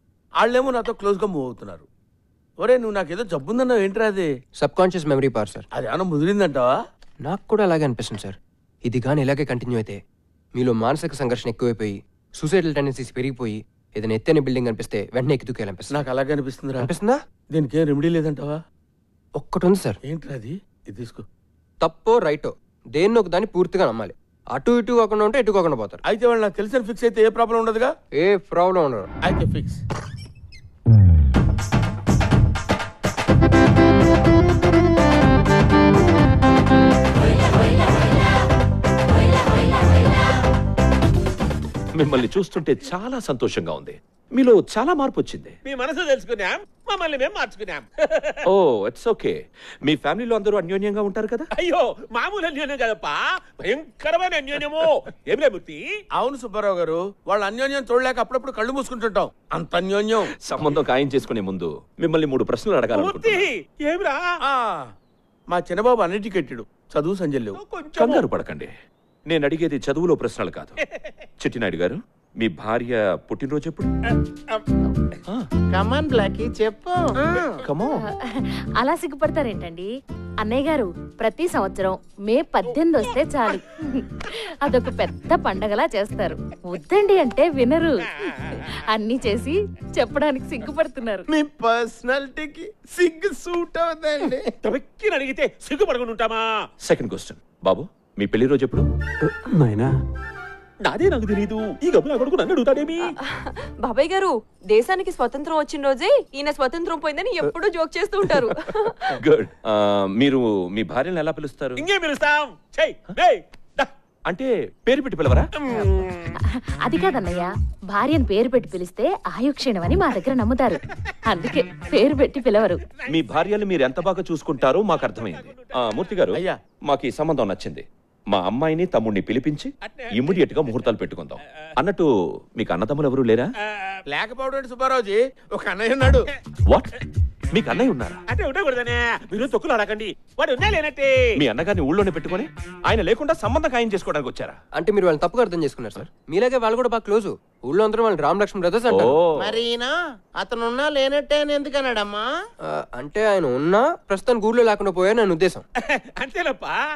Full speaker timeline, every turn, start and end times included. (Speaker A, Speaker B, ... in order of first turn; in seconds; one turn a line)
Speaker A: 0.4-1.9
Speaker A: 2.6-4.3
Speaker B: 4.6-5.6
Speaker A: 5.7-6.7
Speaker B: 7.2-10.0
Speaker B: 10.6-16.1
Speaker A: 15.9-16.9
Speaker B: 16.8-17.2
Speaker A: 17.5-18.6
Speaker B: 19.4-20.0
Speaker A: 20.0-21.2
Speaker B: 21.8-26.0
Speaker A: 26.1-27.9
Speaker B: 28.2-29.1
Speaker A: 29.2-29.8
Speaker C: 41.9-45.5
Speaker D: 45.6-48.4
Speaker C: 48.5-51.5
Speaker D: 51.6-55.8
Speaker A: 56.2-60.3
Speaker C: 60.4-63.5
Speaker D: 62.9-64.2
Speaker A: 64.5-64.8
Speaker A: 65.5-67.6
Speaker D: 67.5-68.3
Speaker C: 68.0-68.7
Speaker C: 69.3-70.8
Speaker C: 71.4-73.9
Speaker E: 75.7-77.6
Speaker C: 77.6-78.0
Speaker F: 78.0-91.2
Speaker E: 91.5-94.4
Speaker D: 94.6-96.4
Speaker C: 96.8-98.8
Speaker D: 100.8-103.1
Speaker G: 103.0-109.1
Speaker C: 109.2-111.8
Speaker D: 111.8-113.9
Speaker C: 114.3-115.5
Speaker D: 115.6-116.0
Speaker F: 115.7-116.0
Speaker F: 116.8-122.8
Speaker D: 122.7-123.4
Speaker C: 123.1-133.5
Speaker D: 124.8-126.1
Speaker A: 126.3-126.6
Speaker D: 129.8-130.9
Speaker A: 134.1-136.2
Speaker C: 136.7-136.9
Speaker C: 137.5-138.2
Speaker D: 138.3-141.1
Speaker C: 141.4-144.6
Speaker B: 144.8-149.2
Speaker C: 148.9-149.7
Speaker E: 149.4-152.3
Speaker B: 152.7-155.6
Speaker D: 155.8-156.8